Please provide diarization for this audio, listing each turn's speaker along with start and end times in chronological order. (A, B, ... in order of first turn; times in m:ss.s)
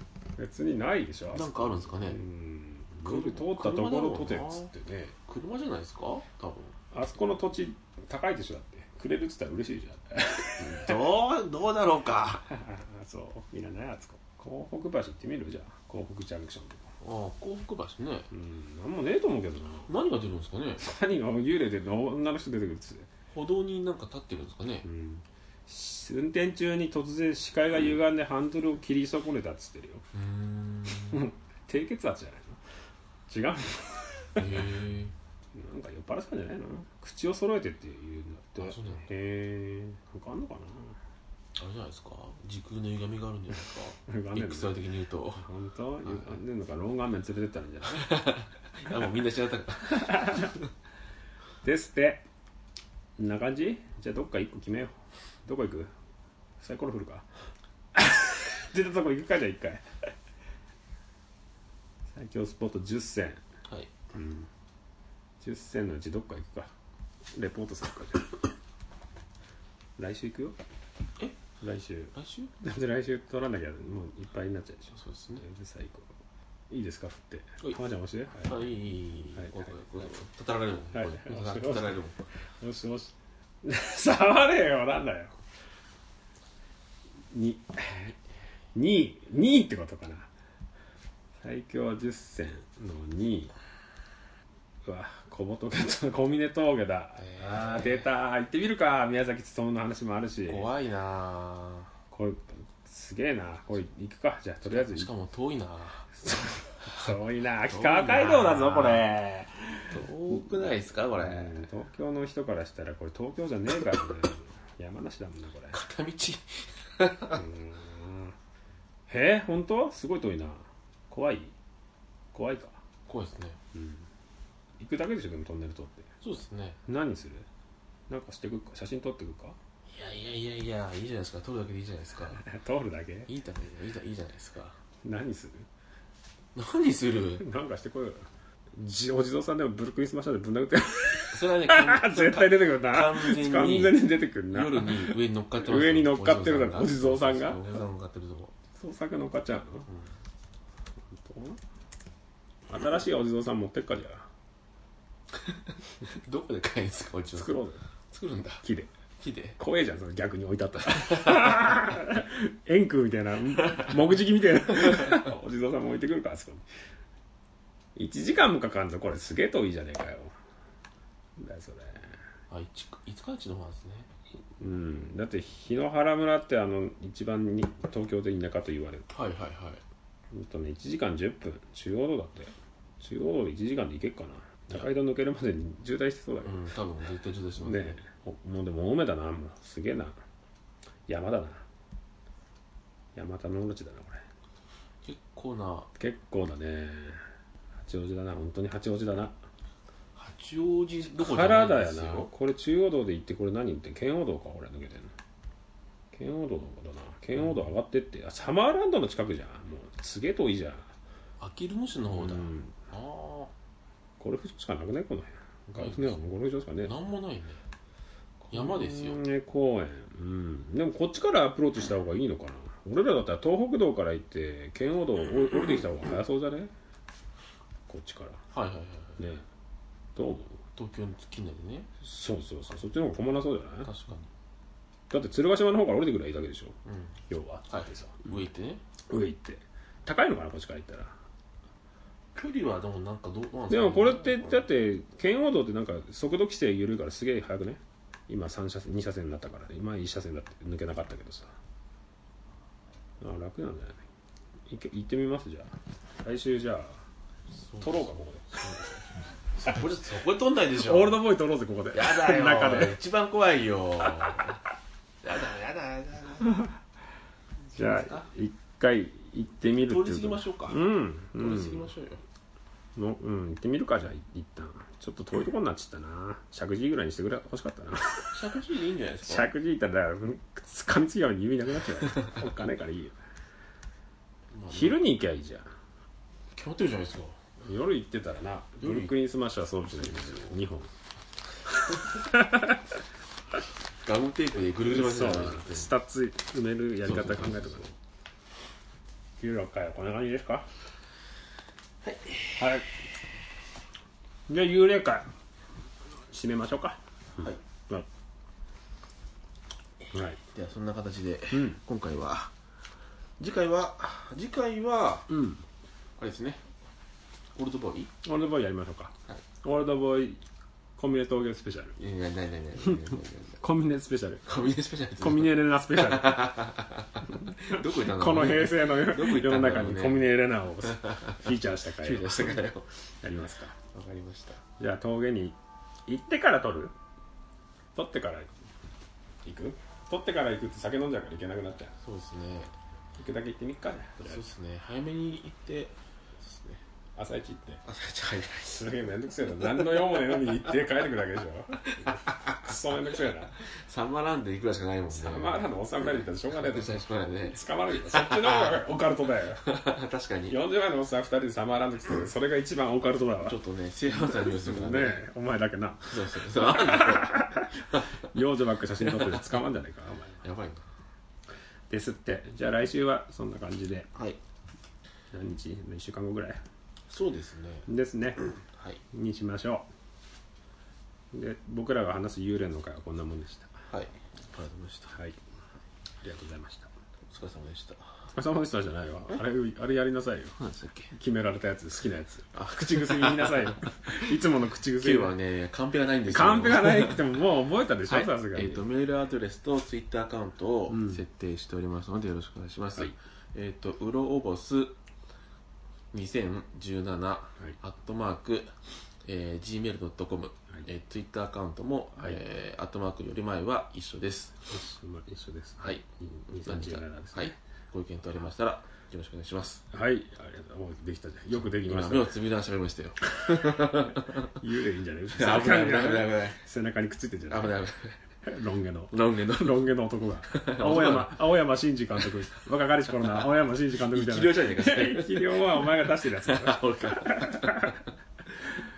0:00.4-0:05.1 A
0:01.3-0:02.2 B
0:03.0-0:04.7 B
0:05.2-0:06.7 B
0:06.9-0:11.1 A
0:10.6-0:12.4 B
0:12.5-0:16.9 A
0:17.0-0:18.3 B
0:18.3-0:19.9 A
0:19.9-0:20.8 B
0:20.8-0:23.1 A
0:23.3-0:24.9 B
0:24.8-0:30.0 A
0:30.1-0:31.3 B
0:31.1-0:32.6 A
0:33.3-0:34.7 A
0:34.4-0:35.1 B
0:35.5-0:41.0 A
0:38.6-0:39.1 B
0:41.6-0:45.5 B
0:44.1-0:44.8 A
0:45.4-0:48.2 A
0:46.0-0:46.3 B
0:47.9-0:50.7 B
0:49.8-0:50.5 A
0:51.6-0:52.2 A
0:53.2-0:54.9 A
0:55.4-0:55.9 A
0:56.6-0:57.3 A
0:57.9-1:00.1 A
1:02.1-1:03.4 A
1:03.7-1:03.9 B
1:04.1-1:04.5 A
1:05.4-1:06.7 A
1:07.3-1:08.4 A
1:10.0-1:10.6 A
1:11.6-1:16.1 A
1:12.1-1:12.5 B
1:15.0-1:15.4 B
1:16.7-1:18.6 A
1:18.3-1:22.3 B
1:19.3-1:19.7 A
1:20.9-1:22.0 A
1:22.5-1:25.4 A
1:27.3-1:28.2 A
1:28.7-1:30.3 A
1:31.4-1:33.5 A
1:34.8-1:40.7 A
1:37.2-1:38.1 B
1:40.4-1:41.9 B
1:42.1-1:45.1 A
1:44.6-1:46.1 B
1:46.2-1:55.8 A
1:47.6-1:49.1 B
1:49.9-1:51.6 B
1:55.7-1:57.4 B
1:57.3-1:58.3 A
1:59.1-2:01.5 A
2:02.3-2:02.8 A
2:03.1-2:03.6 B
2:03.7-2:04.0 A
2:04.8-2:06.1 A
2:06.2-2:06.8 B
2:06.8-2:07.5 A
2:08.1-2:09.6 A
2:09.9-2:12.4 B
2:12.4-2:13.3 A
2:13.3-2:14.8 B
2:15.0-2:15.7 A
2:16.5-2:17.4 B
2:17.4-2:27.7 A
2:21.3-2:28.5 B
2:28.7-2:29.9 A
2:29.9-2:30.1 B
2:31.1-2:31.6 A
2:32.7-2:34.3 A
2:35.3-2:38.6 B
2:37.3-2:37.8 A
2:38.6-2:38.9 A
2:39.2-2:39.6 B
2:39.6-2:46.6 A
2:43.6-2:43.9 B
2:44.9-2:45.2 B
2:47.9-2:50.3 A
2:51.4-2:52.2 A
2:52.5-2:54.1 B
2:54.6-2:59.1 A
2:59.1-2:59.8 B
3:00.3-3:06.6 A
3:06.4-3:08.0 B
3:07.6-3:10.2 A
3:11.1-3:11.6 A
3:13.1-3:14.2 A
3:15.0-3:15.9 B
3:16.0-3:17.2 A
3:17.8-3:19.4 A
3:20.2-3:22.3 B
3:21.1-3:25.1 A
3:26.1-3:30.9 A
3:27.4-3:27.7 B
3:31.4-3:33.5 B
3:32.1-3:32.8 A
3:34.2-3:36.9 A
3:35.7-3:36.2 B
3:36.8-3:37.6 B
3:38.4-3:46.7 A
3:38.5-3:39.2 B
3:47.9-3:48.4 A
3:48.5-3:49.2 B
3:49.2-3:49.4 A
3:50.2-3:50.6 A
3:50.8-3:51.9 B
3:52.0-3:53.9 A
3:53.8-3:54.3 B
3:55.1-3:56.8 A
3:56.8-3:57.1 B
3:57.3-3:58.4 A
3:57.7-3:58.8 B
3:59.0-4:01.2 A
4:02.3-4:04.6 B
4:03.7-4:11.5 A
4:13.2-4:14.0 A
4:14.7-4:17.0 A
4:17.5-4:21.2 B
4:17.8-4:18.6 A
4:20.8-4:23.0 A
4:21.9-4:24.6 B
4:24.3-4:24.6 A
4:25.2-4:26.6 B
4:27.7-4:31.9 A
4:27.8-4:28.3 B
4:29.7-4:32.2 B
4:33.0-4:38.4 A
4:38.3-4:39.5 B
4:39.2-4:43.2 A
4:44.5-4:45.0 B
4:44.7-4:45.7 A
4:46.5-4:47.4 B
4:47.6-4:50.9 A
4:48.8-4:49.1 B
4:49.9-4:50.6 B
4:51.6-4:53.0 A
4:54.0-4:55.9 B
4:54.9-4:57.9 A
4:57.0-4:57.9 B
4:59.4-5:00.7 A
5:02.0-5:02.7 B
5:02.6-5:02.9 A
5:04.5-5:05.3 A
5:06.3-5:08.1 A
5:10.1-5:10.4 A
5:10.4-5:12.5 B
5:11.5-5:11.8 A
5:13.4-5:15.3 B
5:15.3-5:15.6 A
5:16.2-5:16.6 B
5:17.5-5:18.1 B
5:18.2-5:20.4 A
5:21.0-5:21.9 A
5:22.0-5:23.6 B
5:22.8-5:24.4 A
5:24.4-5:30.3 B
5:25.2-5:26.6 A
5:27.3-5:32.6 A
5:31.0-5:32.9 B
5:33.2-5:33.8 A
5:33.9-5:34.6 B
5:34.8-5:35.6 A
5:36.1-5:36.9 A
5:37.9-5:38.6 A
5:39.4-5:42.0 A
5:42.0-5:42.7 B
5:43.2-5:44.4 A
5:44.2-5:46.8 B
5:47.2-5:47.8 A
5:47.8-5:48.9 B
5:48.6-5:53.6 A
5:49.6-5:50.6 B
5:51.8-5:52.8 B
5:53.6-5:55.7 B
5:55.1-5:59.6 A
5:56.5-5:58.9 B
5:59.6-6:00.6 B
6:00.5-6:03.6 A
6:03.4-6:05.2 B
6:04.1-6:10.4 A
6:06.0-6:08.2 B
6:09.0-6:09.5 B
6:10.4-6:10.8 B
6:11.9-6:14.1 A
6:15.3-6:16.6 A
6:17.1-6:17.9 B
6:17.8-6:18.4 A
6:18.6-6:19.0 B
6:19.1-6:19.9 A
6:21.3-6:23.7 A
6:23.9-6:25.2 B
6:25.1-6:25.4 A
6:26.2-6:26.9 A
6:27.3-6:28.0 B
6:28.3-6:30.6 A
6:30.6-6:31.1 B
6:31.1-6:35.3 A
6:32.5-6:34.2 B
6:35.0-6:37.3 B
6:36.2-6:38.8 A
6:38.1-6:44.9 B
6:40.9-6:41.2 A
6:46.1-6:48.7 B
6:49.2-6:54.6 B
6:54.7-6:57.5 A
6:55.8-6:59.8 B
6:59.9-7:02.3 A
7:01.6-7:04.5 B
7:04.4-7:07.8 A
7:05.3-7:06.6 B
7:07.5-7:08.2 B
7:08.4-7:18.0 A
7:09.1-7:11.4 B
7:13.2-7:18.1 B